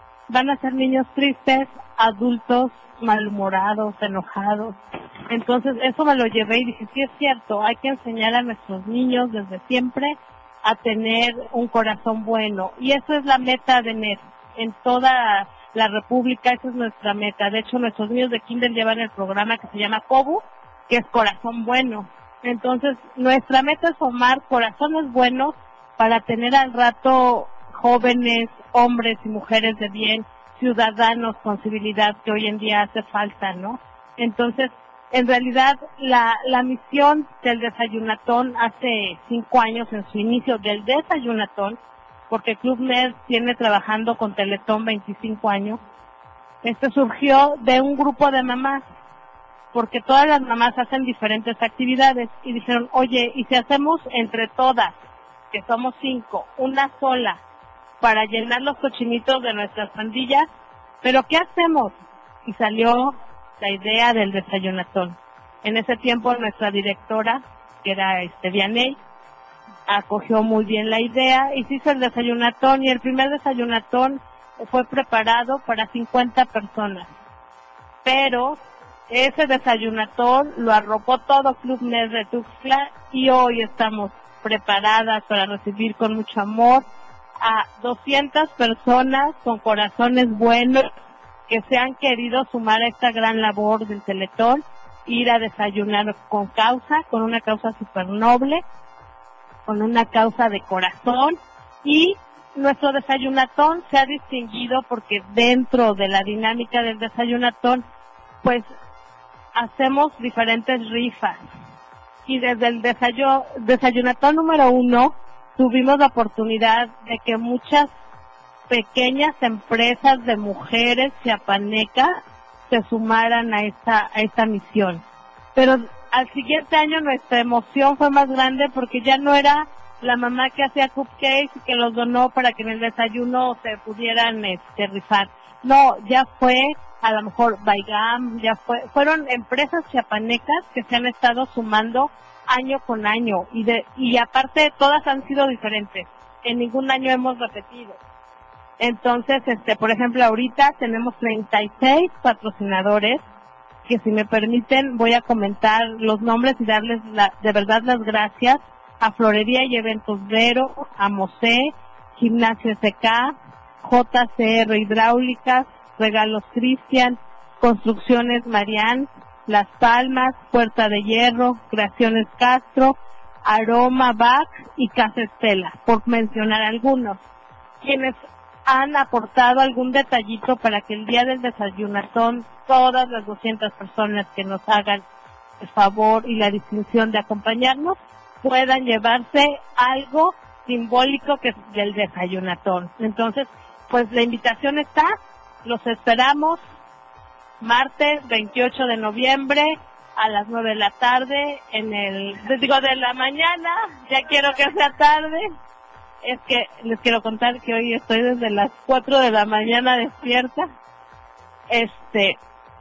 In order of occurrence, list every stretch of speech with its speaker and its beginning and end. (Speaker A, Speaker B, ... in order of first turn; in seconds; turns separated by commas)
Speaker A: 0.3-4.8, Speaker A: 5.3-41.8, Speaker A: 42.3-45.8, Speaker A: 46.6-48.8, Speaker A: 49.7-54.9, Speaker A: 55.5-57.4, Speaker A: 58.0-60.5, Speaker A: 61.0-69.0, Speaker A: 69.9-77.1, Speaker A: 78.0-86.8, Speaker A: 87.4-90.9, Speaker A: 91.5-98.6, Speaker A: 99.7-107.8, Speaker A: 108.4-108.7, Speaker A: 109.5-111.4, Speaker A: 112.2-117.9, Speaker A: 118.7-125.0, Speaker A: 125.5-148.0, Speaker A: 148.8-153.2, Speaker A: 153.8-177.2, Speaker A: 177.8-185.0, Speaker A: 185.6-196.6, Speaker A: 197.6-205.5, Speaker A: 206.2-210.7, Speaker A: 211.7-212.4